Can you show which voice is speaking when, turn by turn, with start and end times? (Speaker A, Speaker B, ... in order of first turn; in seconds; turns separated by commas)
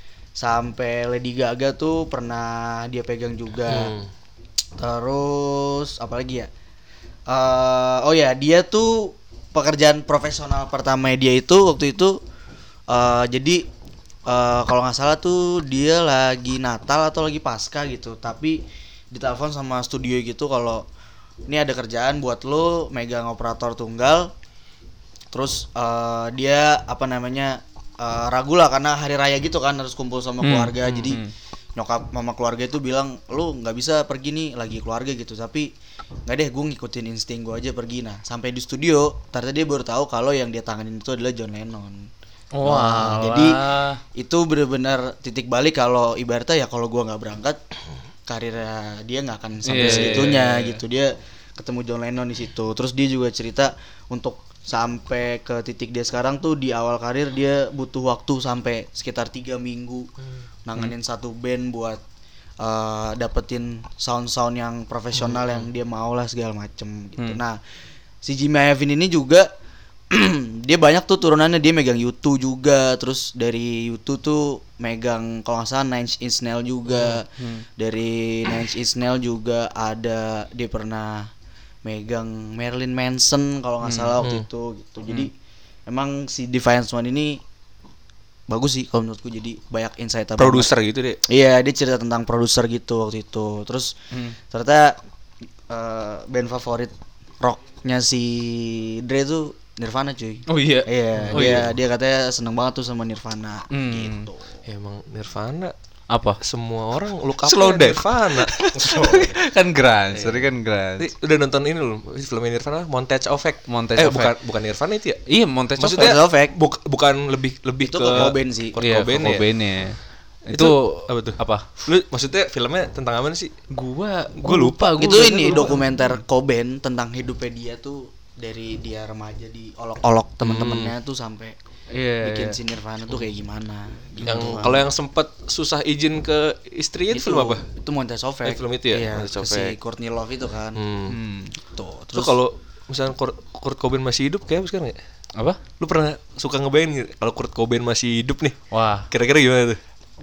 Speaker A: 0.3-3.9, Speaker B: 3.7-4.1, Speaker A: 4.8-6.5, Speaker A: 7.3-12.2, Speaker A: 12.9-13.6, Speaker A: 14.2-20.8, Speaker A: 21.5-24.3, Speaker A: 25.3-31.2, Speaker C: 30.4-31.3, Speaker A: 31.8-35.7, Speaker A: 36.2-42.1, Speaker C: 42.5-44.0, Speaker A: 42.6-43.6, Speaker A: 44.1-47.6, Speaker A: 48.2-60.1, Speaker C: 49.6-50.8, Speaker B: 49.8-50.4, Speaker A: 60.6-62.0, Speaker A: 62.6-67.6, Speaker B: 65.2-65.6, Speaker A: 68.2-69.5, Speaker A: 70.1-81.3, Speaker C: 77.3-77.6, Speaker A: 81.8-85.3, Speaker C: 83.8-84.2, Speaker A: 85.9-87.4, Speaker A: 88.5-90.7, Speaker B: 90.4-91.2, Speaker A: 91.3-93.9, Speaker A: 94.5-95.0, Speaker A: 95.7-104.5, Speaker C: 100.5-101.7, Speaker B: 101.2-101.7, Speaker C: 103.7-104.3, Speaker B: 104.7-105.7, Speaker C: 106.1-106.4, Speaker B: 106.4-109.4, Speaker C: 107.4-111.1, Speaker B: 110.1-115.2, Speaker C: 113.7-114.3, Speaker C: 115.3-116.1, Speaker B: 115.8-119.5, Speaker A: 115.9-116.5, Speaker A: 117.8-118.8, Speaker C: 118.8-121.7, Speaker B: 120.5-123.5, Speaker C: 123.7-126.2, Speaker B: 124.4-125.2, Speaker A: 125.0-131.6, Speaker B: 130.4-130.9, Speaker C: 131.9-132.6, Speaker A: 132.2-134.8, Speaker B: 134.2-137.6, Speaker A: 137.1-140.8, Speaker B: 138.4-139.8, Speaker B: 140.7-141.2, Speaker C: 141.1-141.5, Speaker A: 141.5-142.4, Speaker B: 142.1-145.0, Speaker B: 145.8-148.6, Speaker C: 148.7-149.1, Speaker B: 149.1-149.8